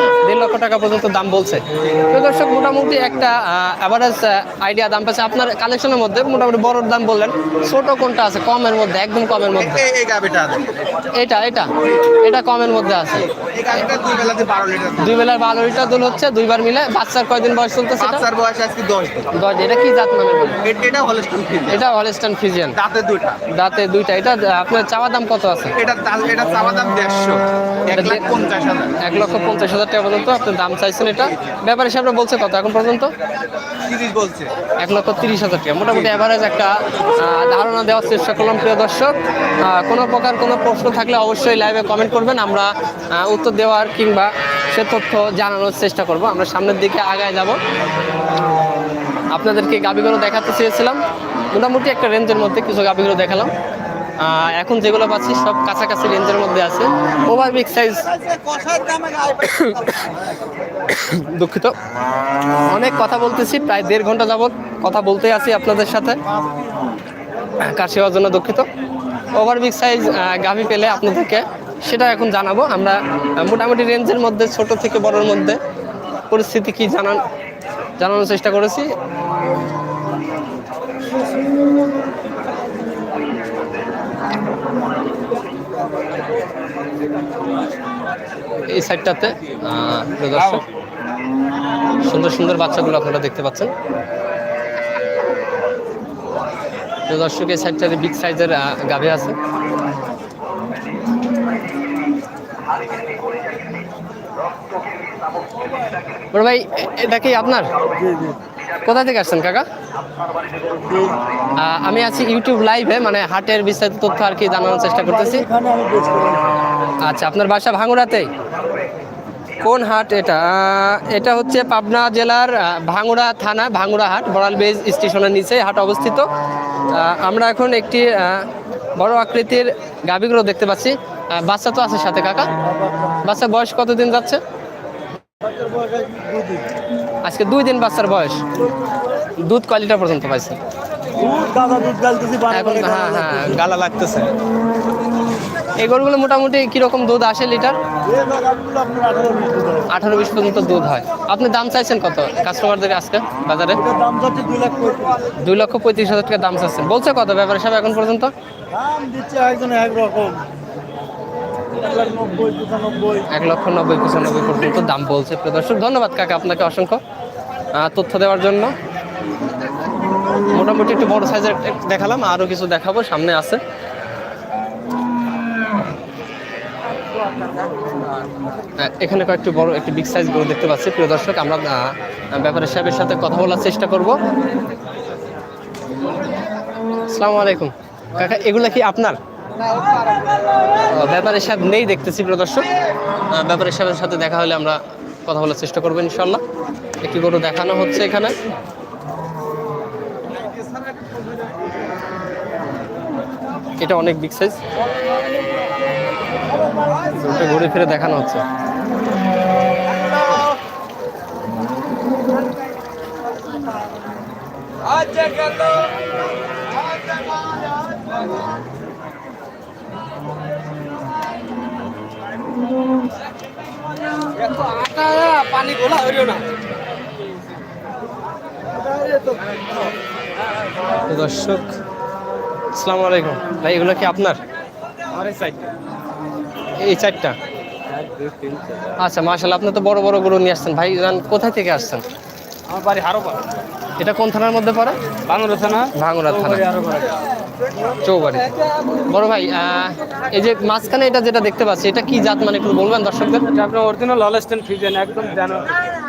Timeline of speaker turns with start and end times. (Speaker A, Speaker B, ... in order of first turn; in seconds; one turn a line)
Speaker A: 0.2-9.8
Speaker B: 9.6-10.7
Speaker A: 11.1-13.3
Speaker B: 13.2-15.2
Speaker A: 15.0-18.2
Speaker B: 18.0-19.3
Speaker A: 19.3-20.6
Speaker B: 20.6-21.8
Speaker A: 21.7-22.8
Speaker B: 22.7-23.4
Speaker A: 23.5-25.7
Speaker B: 25.8-28.9
Speaker A: 27.9-28.2
Speaker A: 29.0-33.1
Speaker B: 31.2-31.5
Speaker B: 33.8-34.5
Speaker A: 34.8-47.6
Speaker A: 49.3-53.5
Speaker A: 54.2-58.1
Speaker B: 58.4-59.3
Speaker A: 59.4-60.0
Speaker A: 60.9-61.8
Speaker A: 62.7-66.2
Speaker A: 67.6-68.7
Speaker A: 69.4-75.6
Speaker A: 76.3-77.2
Speaker A: 78.0-78.9
Speaker A: 88.7-90.6
Speaker A: 92.0-93.7
Speaker A: 97.1-99.4
Speaker A: 106.3-107.7
Speaker C: 108.0-108.4
Speaker A: 108.9-109.7
Speaker C: 110.9-111.2
Speaker A: 111.6-115.5
Speaker C: 114.8-116.5
Speaker A: 117.0-118.3
Speaker A: 119.6-126.3
Speaker A: 126.9-132.5
Speaker C: 132.7-133.2
Speaker A: 133.2-134.4
Speaker C: 135.4-136.7
Speaker A: 137.2-138.4
Speaker C: 138.6-139.0
Speaker A: 139.4-140.6
Speaker C: 141.2-143.6
Speaker A: 142.5-144.3
Speaker A: 145.8-147.8
Speaker C: 148.1-149.9
Speaker A: 149.9-153.8
Speaker C: 153.8-155.3
Speaker A: 155.4-158.3
Speaker C: 158.7-160.5
Speaker C: 161.7-163.3
Speaker A: 163.3-167.0
Speaker A: 167.7-168.7
Speaker A: 170.5-173.6
Speaker A: 178.8-184.2
Speaker A: 187.1-189.2
Speaker A: 190.9-192.7
Speaker A: 193.3-196.4
Speaker A: 197.0-198.3
Speaker A: 203.8-204.6
Speaker A: 207.2-208.4
Speaker D: 215.1-215.7
Speaker D: 224.3-226.5
Speaker A: 231.1-231.7
Speaker A: 232.7-234.4
Speaker D: 235.1-235.7
Speaker A: 236.8-237.4
Speaker D: 237.9-238.9
Speaker A: 239.0-242.1
Speaker D: 242.7-243.4
Speaker A: 244.0-245.0
Speaker D: 245.3-247.2
Speaker A: 245.9-246.6
Speaker A: 248.0-248.5
Speaker A: 249.1-253.5
Speaker D: 253.5-255.7